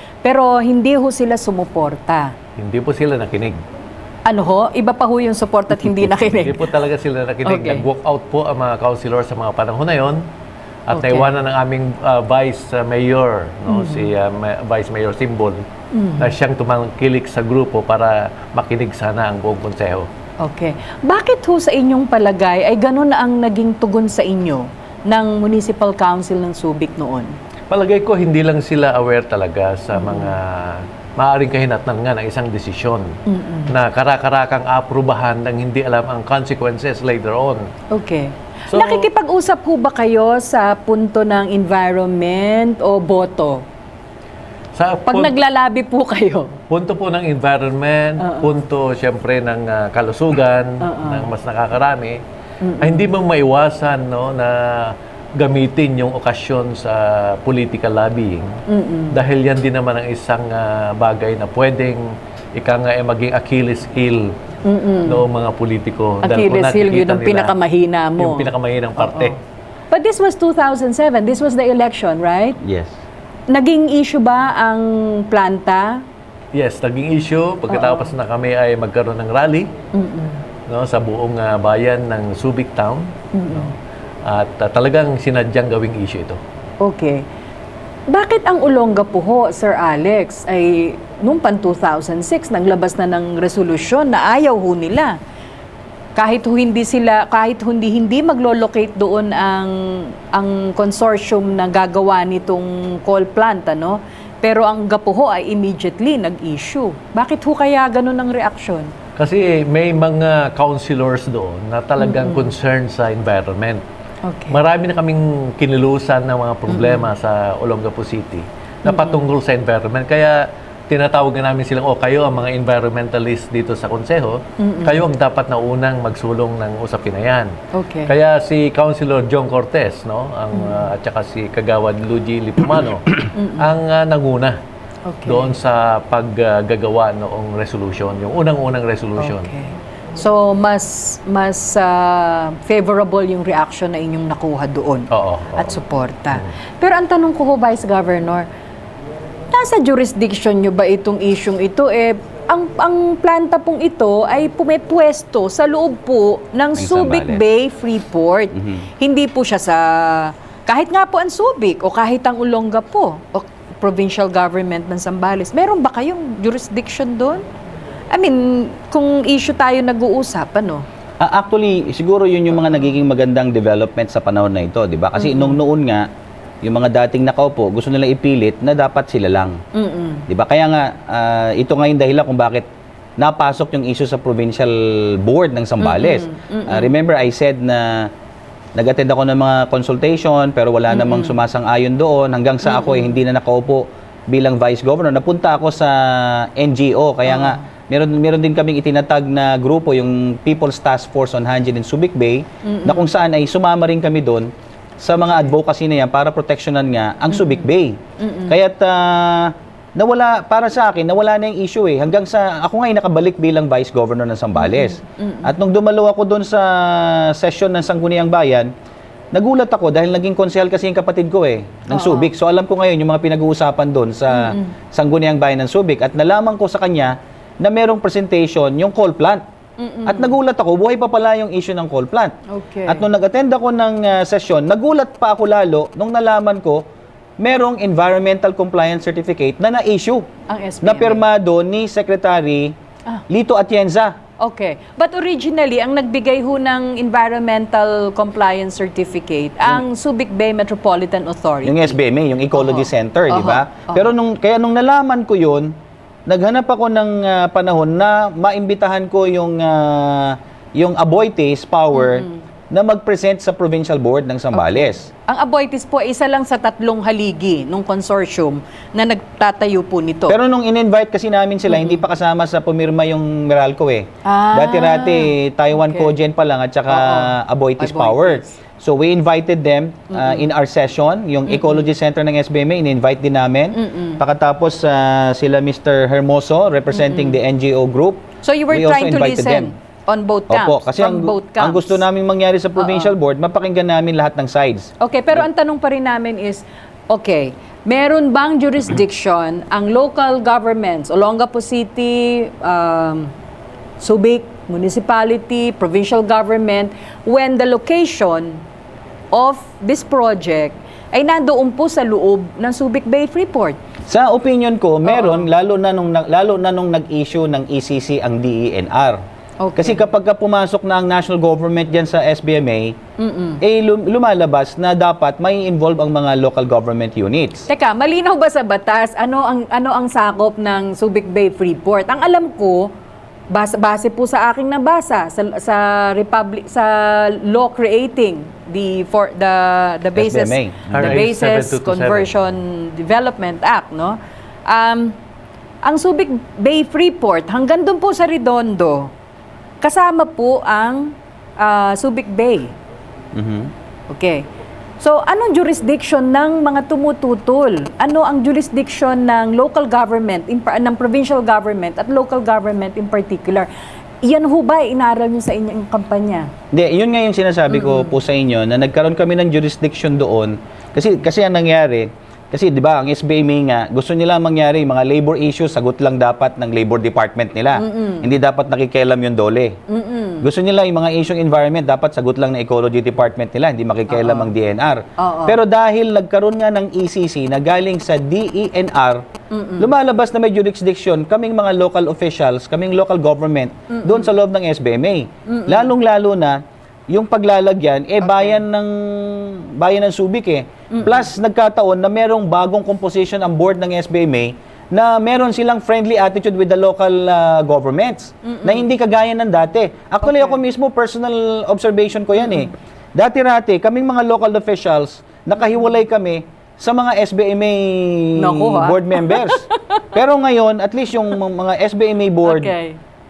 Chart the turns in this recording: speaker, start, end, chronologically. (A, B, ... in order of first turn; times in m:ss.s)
0:00.2-0:02.3 A
0:02.6-0:03.6 B
0:04.2-0:06.7 A
0:06.2-0:10.2 B
0:07.4-0:07.8 A
0:10.9-0:15.6 B
0:10.9-0:11.3 A
0:13.7-0:14.1 A
0:15.9-0:16.3 A
0:16.2-0:20.1 B
0:20.4-0:27.3 A
0:27.7-0:33.1 B
0:30.0-0:30.4 A
0:33.3-0:33.8 A
0:33.7-0:37.6 B
0:37.9-0:43.6 A
0:38.7-0:39.1 B
0:44.8-0:45.4 B
0:45.1-0:46.6 A
0:46.7-0:52.2 B
0:48.2-0:48.5 A
0:50.8-0:51.3 A
0:52.6-0:53.1 A
0:52.8-0:58.6 B
0:58.7-0:59.2 A
0:59.1-1:02.0 B
1:02.6-1:04.3 B
1:04.6-1:05.2 A
1:05.0-1:07.5 B
1:06.2-1:09.4 A
1:08.2-1:09.4 B
1:09.9-1:12.6 A
1:12.6-1:13.0 C
1:13.5-1:16.0 A
1:16.5-1:19.7 B
1:17.7-1:18.1 A
1:19.9-1:20.4 A
1:20.7-1:23.7 B
1:23.3-1:23.7 A
1:24.3-1:26.4 B
1:26.8-1:27.2 A
1:28.1-1:35.2 A
1:36.2-1:48.9 A
1:49.2-1:53.8 B
1:52.0-1:52.5 A
1:54.2-1:54.6 A
1:54.5-2:07.5 B
1:56.7-1:57.1 A
1:58.8-1:59.2 A
2:04.6-2:05.0 A
2:07.7-2:08.1 A
2:08.1-2:14.6 B
2:10.5-2:10.9 A
2:13.3-2:13.7 A
2:15.1-2:15.5 A
2:15.3-2:19.5 B
2:19.2-2:28.5 A
2:25.1-2:25.8 B
2:29.5-2:47.4 A
2:36.8-2:37.4 C
2:38.6-2:38.8 C
2:48.1-2:50.8 A
2:51.2-2:56.0 C
2:55.2-2:55.6 A
2:56.6-2:59.6 C
2:59.7-3:00.2 A
3:00.3-3:02.7 C
3:03.2-3:08.1 C
3:05.8-3:06.9 A
3:08.8-3:24.5 C
3:10.9-3:11.4 A
3:12.6-3:13.2 A
3:17.3-3:17.6 A
3:22.6-3:23.1 A
3:25.0-3:28.0 C
3:27.3-3:27.7 A
3:28.2-3:28.6 A
3:28.5-3:38.7 C
3:34.6-3:35.5 A
3:39.3-3:49.4 C
3:41.9-3:42.3 A
3:44.3-3:44.7 A
3:49.8-3:50.4 A
3:50.1-3:52.4 C
3:52.5-3:53.1 A
3:52.9-3:56.8 C
3:57.4-4:00.3 C
4:00.5-4:01.2 A
4:00.8-4:02.7 C
4:03.3-4:04.2 C
4:04.4-4:12.0 A
4:11.6-4:15.7 C
4:12.5-4:14.1 A
4:16.3-4:25.1 C
4:21.9-4:22.4 A
4:24.6-4:30.4 A
4:30.3-4:49.7 C
4:31.7-4:32.0 A
4:34.2-4:36.2 A
4:36.9-4:38.6 A
4:40.1-4:40.5 A
4:41.5-4:41.8 A
4:43.7-4:44.2 A
4:46.9-4:47.4 A
4:48.4-4:52.0 A
4:50.5-4:54.9 C
4:52.8-4:53.1 A
4:55.0-5:03.3 A
5:04.0-5:08.6 A
5:09.3-5:13.8 A
5:14.1-5:19.2 C
5:15.1-5:15.5 A
5:19.6-5:20.0 A
5:19.8-5:23.0 C
5:23.2-5:23.6 A
5:23.6-5:27.7 C
5:27.7-5:32.9 A
5:33.5-5:45.2 A
5:40.2-5:41.2 C
5:40.9-5:42.3 B
5:45.8-5:49.1 A
5:49.8-5:52.8 A
5:53.3-5:53.7 C
5:54.1-5:54.4 A
5:55.0-6:03.7 A
6:04.2-6:06.5 A
6:06.7-6:19.8 C
6:07.7-6:08.2 A
6:17.8-6:18.3 A
6:19.9-6:20.5 A
6:20.4-6:29.2 C
6:24.1-6:24.5 A
6:25.2-6:25.6 A
6:29.5-6:29.9 A
6:29.8-6:36.6 C
6:33.9-6:34.3 A
6:35.5-6:35.9 A
6:37.1-7:02.7 C
6:38.2-6:38.6 A
6:40.9-6:41.3 A
6:48.4-6:48.9 A
6:50.2-6:50.6 A
6:58.4-7:00.2 A
7:02.4-7:03.0 A